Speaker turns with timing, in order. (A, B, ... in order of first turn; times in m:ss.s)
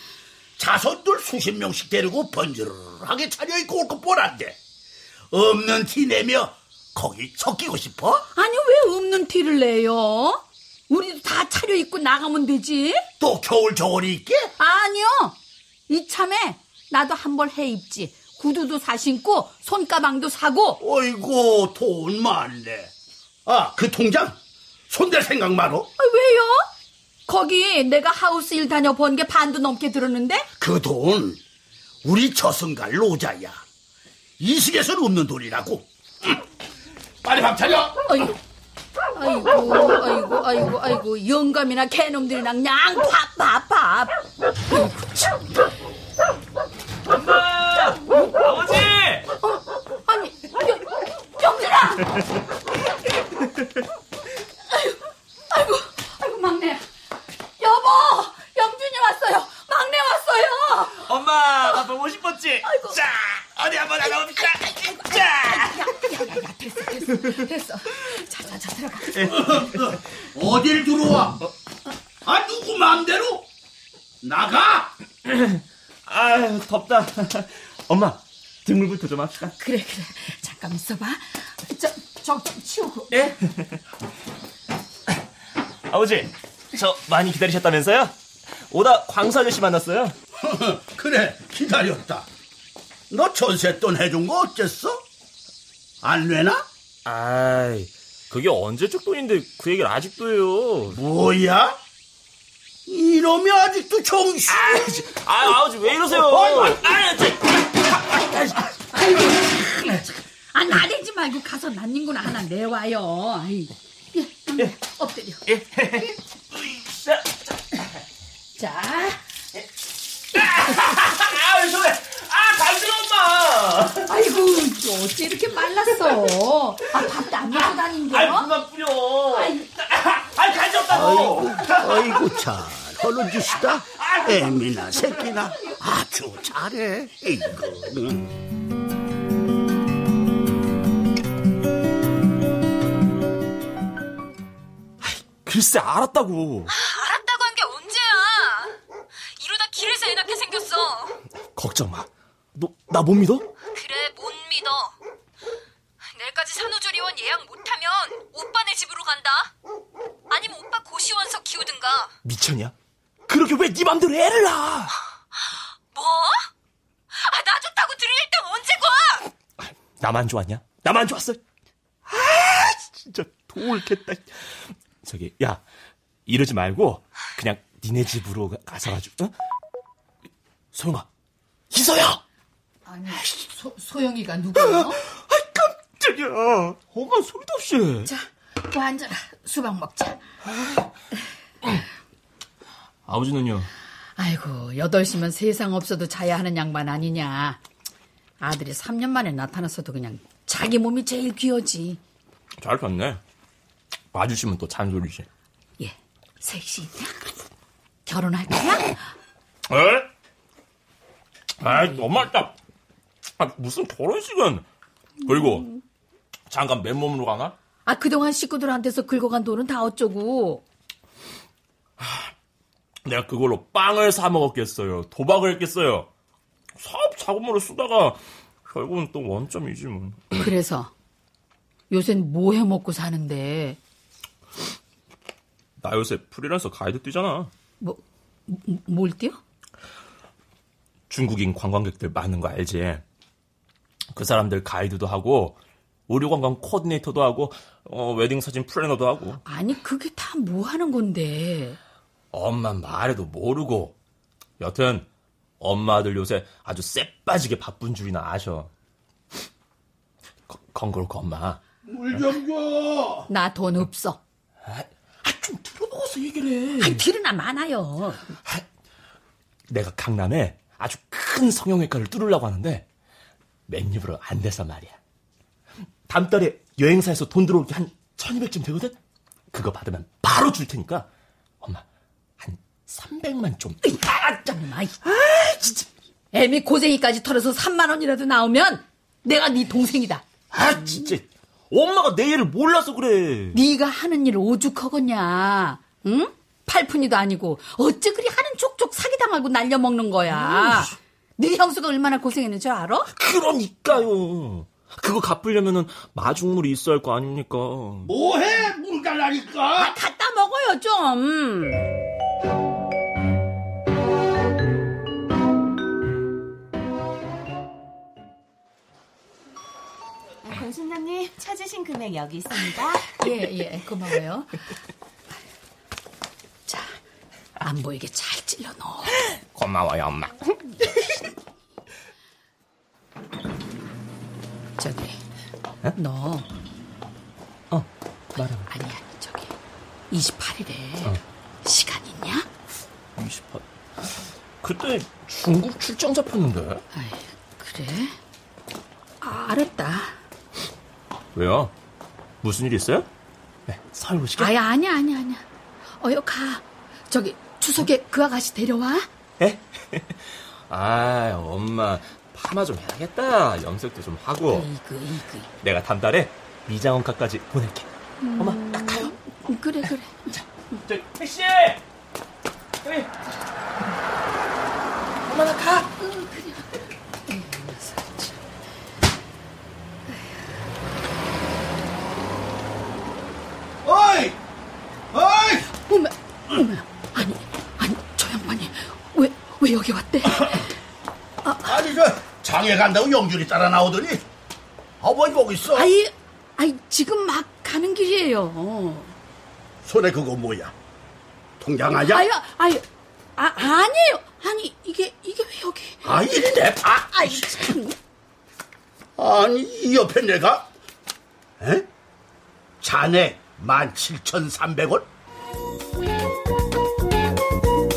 0:00.6-0:04.6 A
0:05.3-0:08.2 A
0:08.3-0:13.1 B
0:13.2-0:14.5 A
0:14.6-0:15.4 B
0:15.9-0:20.8 B
0:20.8-0:22.9 A
0:23.4-0:24.4 A
0:24.9-0:25.9 A
0:26.0-0:26.7 B
0:27.3-0:30.5 B
0:30.6-0:31.4 A
0:32.0-0:33.6 A
0:34.4-0:36.4 A
0:37.2-0:38.0 A
0:38.1-0:38.3 B
0:39.1-0:44.2 B
0:44.7-0:45.4 B
0:47.1-0:49.2 C
0:49.4-0:52.2 B
0:54.7-0:56.8 B
0:57.6-1:01.0 B
1:01.0-1:05.9 C
1:02.6-1:03.0 B
1:05.5-1:09.1 B
1:07.1-1:07.4 C
1:09.1-1:09.9 C
1:09.2-1:11.4 A
1:12.2-1:13.5 A
1:14.2-1:14.9 A
1:15.2-1:19.5 C
1:19.6-1:23.3 B
1:23.1-1:23.8 C
1:25.9-1:28.2 C
1:28.7-1:30.1 C
1:30.4-1:32.3 A
1:33.1-1:35.0 A
1:36.0-1:36.7 A
1:37.0-1:41.0 C
1:40.9-1:41.8 A
1:42.9-1:45.1 A
1:44.5-1:47.7 C
1:46.1-1:48.6 A
1:48.9-1:55.4 B
1:55.5-1:56.1 C
1:56.7-1:57.2 C
1:58.6-1:59.2 B
2:00.3-2:04.0 C
2:04.0-2:08.5 B
2:08.1-2:12.2 C
2:09.4-2:09.6 B
2:10.9-2:18.3 A
2:25.0-2:26.7 C
2:26.7-2:28.8 D
2:29.3-2:31.2 D
2:31.5-2:33.5 C
2:33.7-2:35.0 D
2:36.1-2:39.5 D
2:40.3-2:42.1 D
2:42.2-2:42.7 C
2:43.3-2:44.9 C
2:45.9-2:46.5 D
2:47.1-2:49.3 D
2:50.0-2:51.4 C
2:52.0-2:55.6 C
2:56.2-2:59.3 C
3:00.7-3:01.1 C
3:01.7-3:02.2 C
3:02.8-3:05.0 B
3:04.6-3:08.1 C
3:08.0-3:10.2 B
3:13.1-3:13.7 C
3:14.2-3:17.6 B
3:18.4-3:22.0 B
3:22.6-3:23.2 C
3:24.1-3:25.3 C
3:25.8-3:27.2 B
3:28.0-3:29.0 B
3:29.7-3:30.1 C
3:31.6-3:32.5 C
3:33.4-3:34.6 C
3:35.2-3:35.7 C
3:36.5-3:37.5 C
3:37.8-3:40.6 B
3:43.0-3:46.1 C
3:46.8-3:50.5 C
3:50.4-3:50.9 B
3:51.9-3:53.8 B
3:55.8-3:57.5 C
3:57.8-3:59.4 B
4:01.1-4:03.0 C
4:04.1-4:09.4 C
4:09.4-4:11.8 B
4:12.3-4:13.9 C
4:14.6-4:15.1 C
4:15.6-4:18.7 C
4:20.5-4:21.6 C
4:21.8-4:23.3 A
4:23.3-4:24.2 B
4:24.7-4:27.0 C
4:26.8-4:28.2 B
4:29.7-4:32.8 C
4:33.7-4:35.0 C
4:36.1-4:39.0 C
4:39.5-4:41.1 C
4:42.4-4:43.8 C
4:43.8-4:45.1 B
4:45.2-4:45.8 C
4:46.3-4:50.2 B
4:50.5-4:53.6 C
4:53.5-5:03.1 B
5:03.1-5:08.1 C
5:08.0-5:10.0 A
5:09.8-5:11.8 B
5:20.7-5:22.7 E
5:23.2-5:24.6 B
5:26.7-5:27.0 B
5:27.6-5:29.3 B
5:29.5-5:30.5 C
5:34.8-5:35.2 B
5:36.0-5:36.4 B
5:38.6-5:39.5 B
5:40.1-5:42.5 B
5:43.2-5:46.8 C
5:46.9-5:48.2 B
5:49.2-5:50.2 B
5:51.3-5:51.7 C
5:52.4-5:53.1 C
5:53.7-5:54.5 C
5:54.4-5:55.4 B
5:56.0-5:59.1 B
5:59.4-6:04.6 C
6:04.5-6:05.5 B
6:05.6-6:09.1 C
6:08.2-6:10.3 B
6:10.9-6:11.8 C
6:15.5-6:16.7 B
6:17.3-6:18.4 B
6:23.8-6:24.4 A
6:25.1-6:25.7 A
6:25.9-6:30.7 B
6:31.4-6:31.8 B
6:31.6-6:34.2 A
6:35.0-6:35.9 A
6:35.7-6:39.1 B
6:39.8-6:40.7 A
6:41.6-6:42.3 A
6:42.1-6:42.8 B
6:43.4-6:46.0 B
6:46.0-6:47.8 A
6:47.1-6:48.0 B
6:49.2-6:50.7 A
6:51.6-6:51.9 A
6:52.8-6:55.1 A